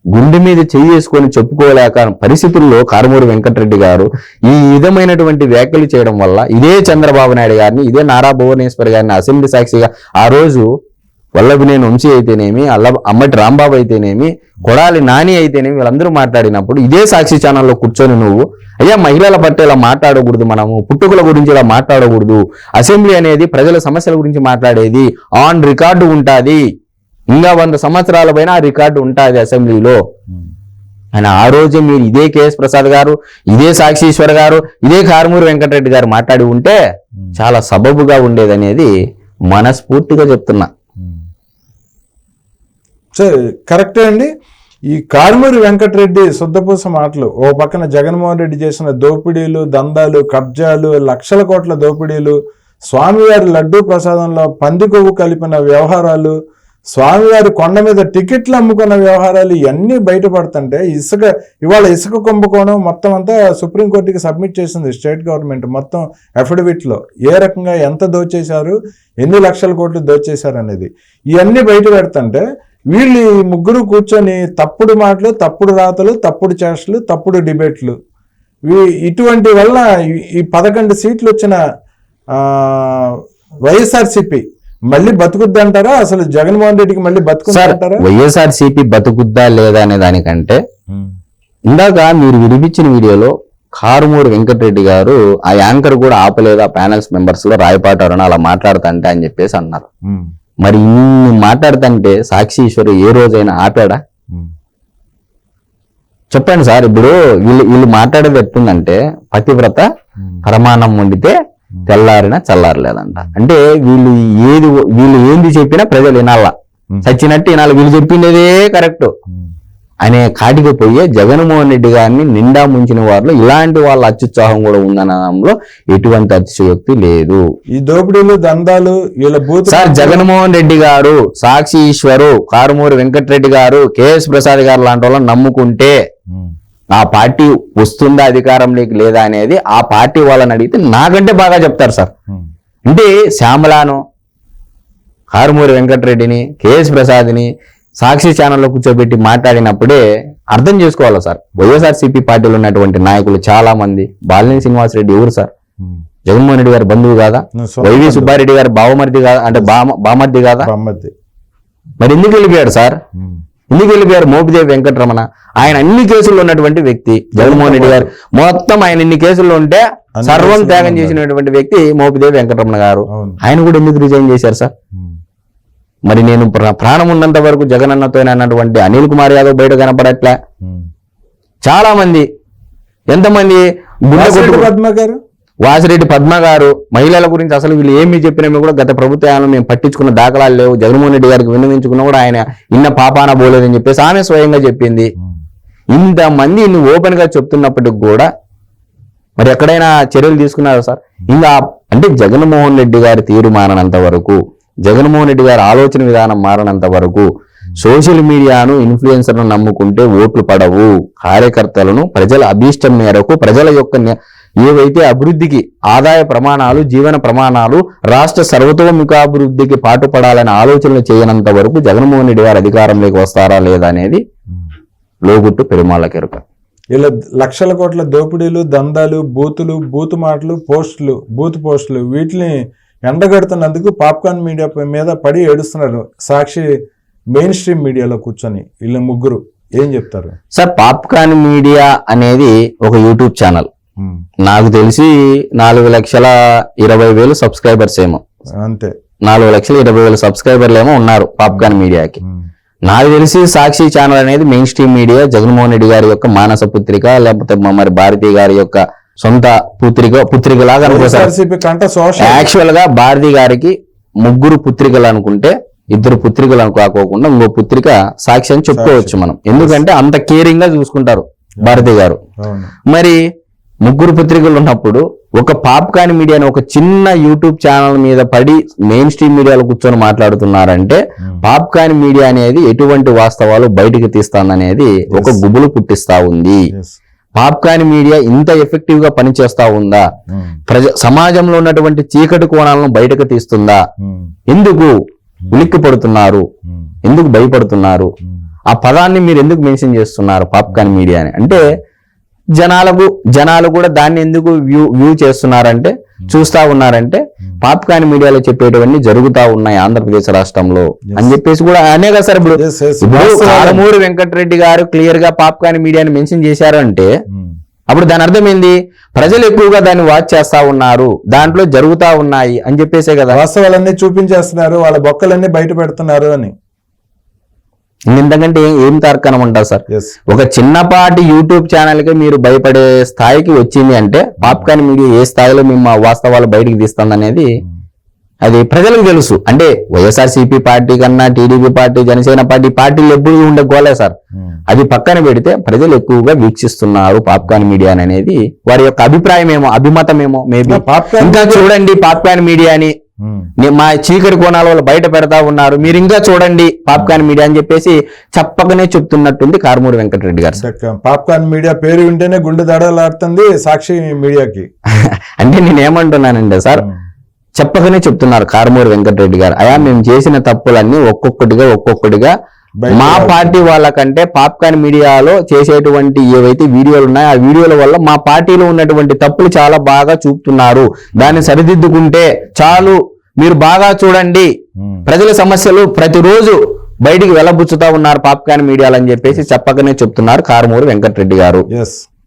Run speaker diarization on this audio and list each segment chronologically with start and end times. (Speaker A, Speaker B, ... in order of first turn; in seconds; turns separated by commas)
Speaker A: 0.1-10.7, Speaker A: 11.4-26.6, Speaker A: 27.3-30.0, Speaker A: 31.1-36.8, Speaker A: 37.4-38.9, Speaker A: 39.5-40.7, Speaker B: 43.2-44.3, Speaker B: 44.9-52.4, Speaker B: 52.9-56.3, Speaker B: 56.9-78.0, Speaker B: 78.7-81.6, Speaker B: 82.4-83.0, Speaker B: 83.7-88.0, Speaker A: 87.5-90.6, Speaker B: 90.9-91.2, Speaker A: 91.7-99.9, Speaker B: 100.1-100.3, Speaker A: 100.6-104.0, Speaker A: 106.3-109.8, Speaker A: 110.4-111.3, Speaker A: 111.9-116.5, Speaker A: 117.0-119.1, Speaker A: 120.0-127.4, Speaker B: 127.7-130.3, Speaker A: 129.7-135.9, Speaker A: 136.9-142.1, Speaker A: 142.9-144.0, Speaker A: 145.3-147.5, Speaker A: 148.0-150.0, Speaker A: 150.5-155.5, Speaker A: 156.3-160.7, Speaker B: 157.6-158.4, Speaker B: 160.6-161.1, Speaker A: 162.0-163.0, Speaker B: 163.2-163.4, Speaker A: 163.7-174.7, Speaker B: 167.3-168.1, Speaker B: 170.2-171.2, Speaker B: 173.1-173.4, Speaker A: 176.1-180.4, Speaker B: 180.6-180.9, Speaker A: 181.7-182.3, Speaker A: 183.1-184.7, Speaker B: 184.2-185.2, Speaker A: 185.6-195.1, Speaker A: 195.9-198.3, Speaker A: 199.4-207.3, Speaker A: 207.8-224.2, Speaker A: 225.2-226.4, Speaker B: 226.9-232.6, Speaker B: 233.1-236.7, Speaker B: 237.3-240.3, Speaker A: 240.5-243.7, Speaker A: 244.4-248.2, Speaker B: 248.6-248.9, Speaker A: 249.2-252.2, Speaker B: 251.5-252.5, Speaker A: 252.9-261.3, Speaker B: 260.8-262.5, Speaker A: 262.2-272.2, Speaker B: 268.7-269.8, Speaker B: 272.4-272.7, Speaker A: 272.9-273.2, Speaker A: 273.8-286.6, Speaker B: 285.1-285.4, Speaker B: 286.7-287.0, Speaker A: 287.4-290.0, Speaker B: 290.3-290.6, Speaker A: 290.7-293.8, Speaker B: 294.0-294.3, Speaker A: 294.5-294.9, Speaker A: 295.5-296.4, Speaker A: 297.1-298.1, Speaker A: 298.7-301.6, Speaker A: 302.6-317.1, Speaker B: 312.6-313.8, Speaker B: 317.3-317.6, Speaker A: 317.9-323.4, Speaker B: 323.3-326.5, Speaker A: 328.1-337.5, Speaker B: 329.9-330.2, Speaker A: 338.4-344.1, Speaker A: 344.7-352.9, Speaker B: 350.6-351.7, Speaker B: 353.2-353.5, Speaker A: 353.6-360.6, Speaker B: 360.6-364.7, Speaker A: 365.0-366.9, Speaker A: 367.6-372.3, Speaker B: 372.8-373.7, Speaker A: 372.9-384.5, Speaker A: 385.1-391.7, Speaker B: 391.7-392.1